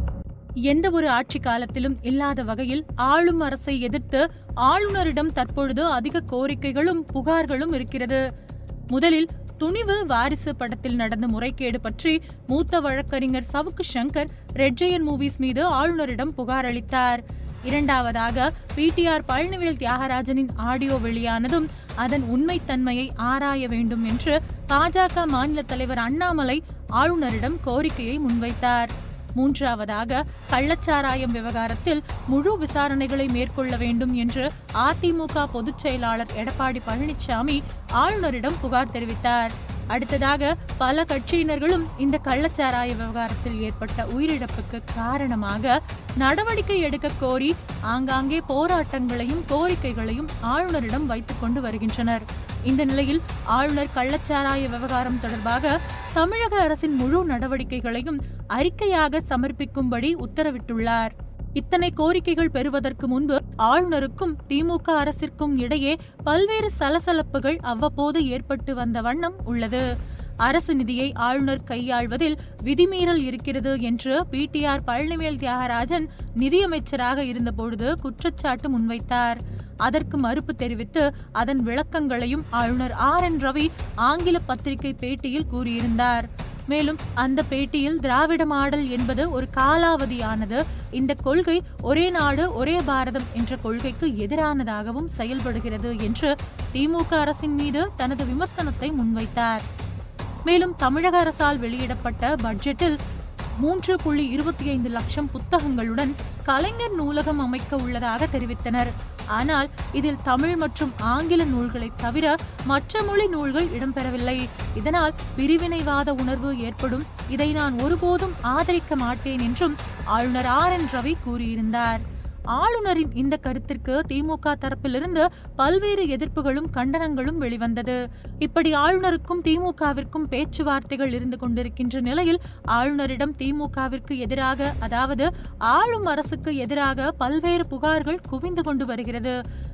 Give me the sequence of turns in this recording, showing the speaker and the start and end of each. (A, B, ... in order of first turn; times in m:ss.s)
0:00.7-0:08.2 A
0:08.9-1:09.8 A
1:10.4-1:39.6 A
1:40.5-1:43.0 A
1:43.6-2:02.0 A
2:02.5-2:19.4 A